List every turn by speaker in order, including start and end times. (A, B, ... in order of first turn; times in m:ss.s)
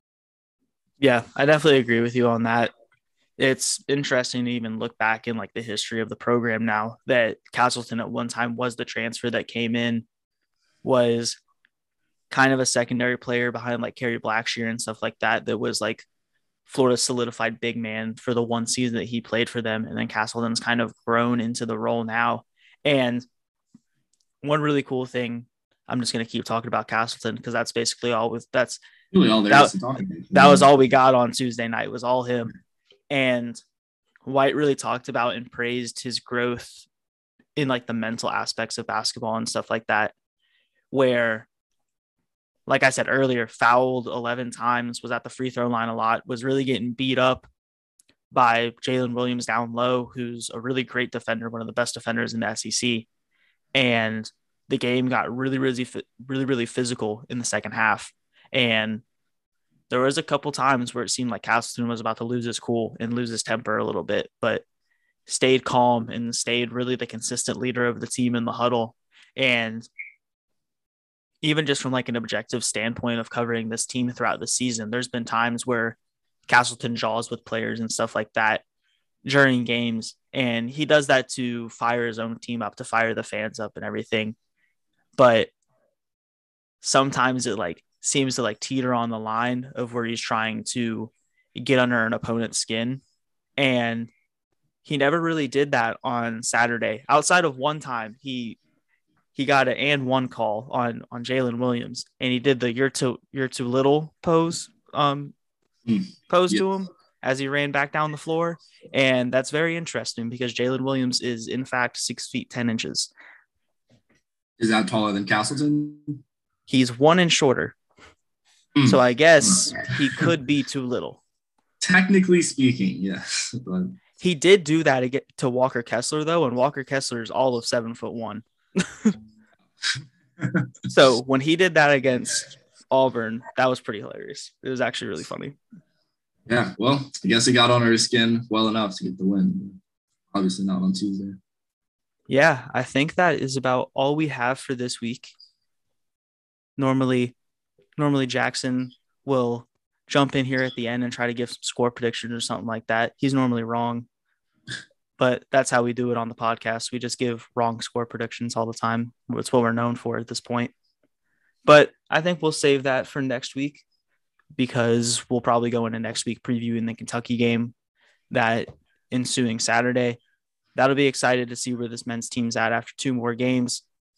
0:01.0-0:02.7 A
0:03.4-0:10.1 A
0:10.8-0:11.4 A
0:12.3-0:16.1 A
0:16.7-0:23.2 A
0:24.4-0:28.8 A
0:29.1-0:30.7 B
0:29.5-0:29.8 A
0:30.3-0:32.6 A
0:33.1-0:33.6 A
0:34.2-0:36.8 A
0:37.6-0:40.1 A
0:40.9-0:41.5 A
0:42.7-0:47.5 A
0:48.3-0:53.1 A
0:53.8-0:59.0 A
0:59.9-1:04.6 A
1:05.3-1:09.9 A
1:11.4-1:16.0 A
1:16.5-1:18.6 A
1:19.2-1:24.4 A
1:25.2-1:25.5 A
1:26.8-1:33.0 A
1:33.6-1:34.1 A
1:34.8-1:38.6 A
1:39.3-1:45.3 A
1:45.9-1:46.6 B
1:46.3-1:53.1 A
1:54.6-1:56.2 B
1:56.7-1:57.8 A
1:58.8-1:59.6 B
1:58.9-2:01.2 A
2:01.8-2:04.0 B
2:04.2-2:09.2 A
2:10.0-2:10.7 B
2:10.9-2:15.6 A
2:16.5-2:19.8 B
2:20.3-2:21.4 B
2:22.3-2:25.3 A
2:26.8-2:27.3 A
2:28.0-2:34.1 A
2:35.2-2:40.7 A
2:41.7-2:43.8 A
2:44.6-2:47.7 A
2:48.3-2:50.2 A
2:50.8-2:53.8 A